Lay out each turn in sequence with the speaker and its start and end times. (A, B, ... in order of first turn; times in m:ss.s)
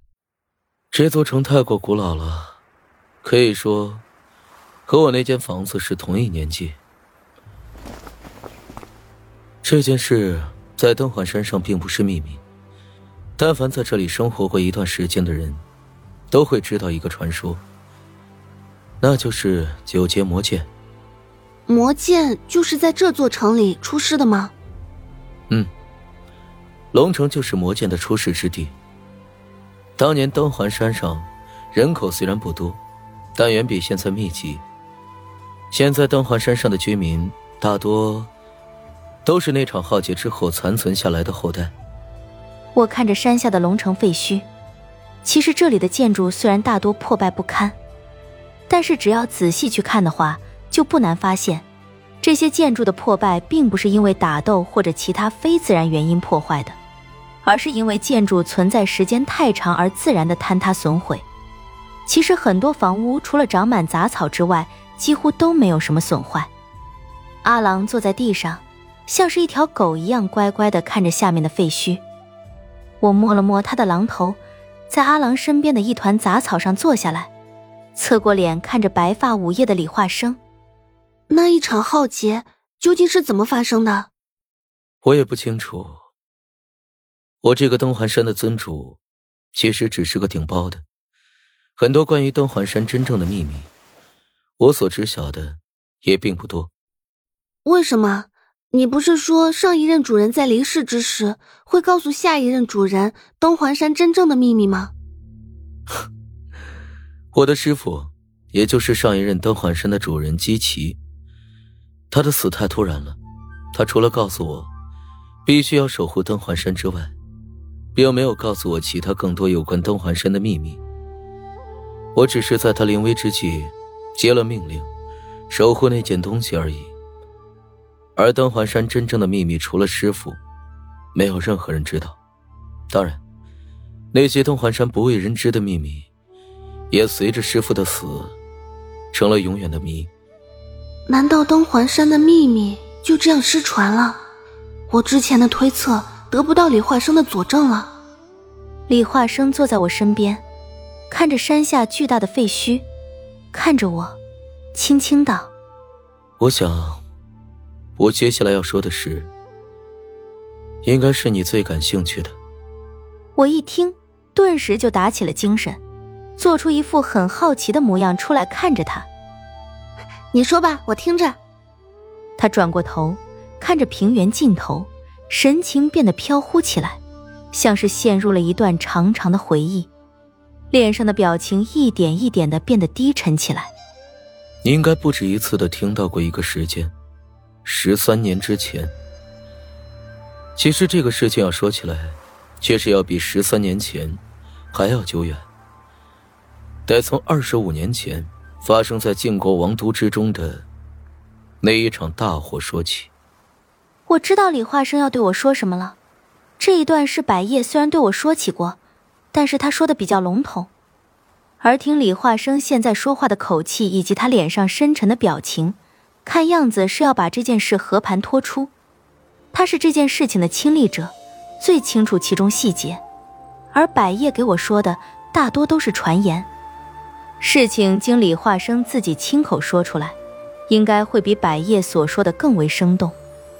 0:00.9-0:02.6 A
0:03.2-0:04.0 A
0:04.9-0:06.8 A
0:09.6-0:12.4 A
0:13.4-0:15.6 A
0:16.3-0:17.6 A
0:19.0-0:20.7 A
0:21.7-0:24.5 B
0:26.9-0:28.7 A
0:30.0-0:32.8 A
0:33.3-0:34.6 A
0:35.7-0:38.3 A
0:39.2-0:41.7 A
0:42.7-0:44.4 C
0:45.2-0:47.8 C
0:48.7-0:51.6 C
0:52.2-0:56.8 C
0:57.4-1:01.2 C
1:02.1-1:06.5 C
1:07.4-1:12.0 C
1:13.0-1:14.4 C
1:14.9-1:17.3 C
1:18.0-1:20.4 C
1:21.3-1:24.1 B
1:25.0-1:26.0 A
1:27.4-1:29.0 A
1:29.5-1:30.8 A
1:31.8-1:33.7 A
1:34.6-1:36.7 A
1:37.6-1:44.9 B
1:47.3-1:51.0 A
1:52.1-1:53.2 A
1:53.7-1:54.7 A
1:55.4-1:57.1 A
1:58.0-2:00.8 A
2:02.1-2:04.9 A
2:05.5-2:06.9 A
2:08.2-2:10.4 A
2:11.2-2:12.2 A
2:12.9-2:13.2 A
2:14.1-2:16.1 A
2:16.9-2:18.3 A
2:19.1-2:20.1 A
2:21.1-2:24.2 B
2:24.9-2:27.9 B
2:28.9-2:30.4 C
2:31.1-2:32.8 C
2:33.5-2:34.2 C
2:34.7-2:35.5 C
2:36.4-2:37.0 A
2:38.0-2:39.3 A
2:40.8-2:42.3 A
2:43.4-2:45.8 C
2:46.4-2:49.1 C
2:50.3-2:51.4 B
2:52.4-2:57.0 C
2:57.5-2:59.9 C
3:00.7-3:03.7 C
3:04.6-3:06.9 A
3:07.6-3:08.9 A
3:10.6-3:14.2 A
3:14.7-3:15.5 A
3:16.9-3:20.7 A
3:21.6-3:23.1 A
3:24.1-3:26.0 C
3:26.6-3:28.8 C
3:29.3-3:30.7 C
3:31.6-3:38.7 C
3:39.5-3:43.0 C
3:43.7-3:46.5 C
3:47.4-3:50.2 C
3:50.7-3:53.2 C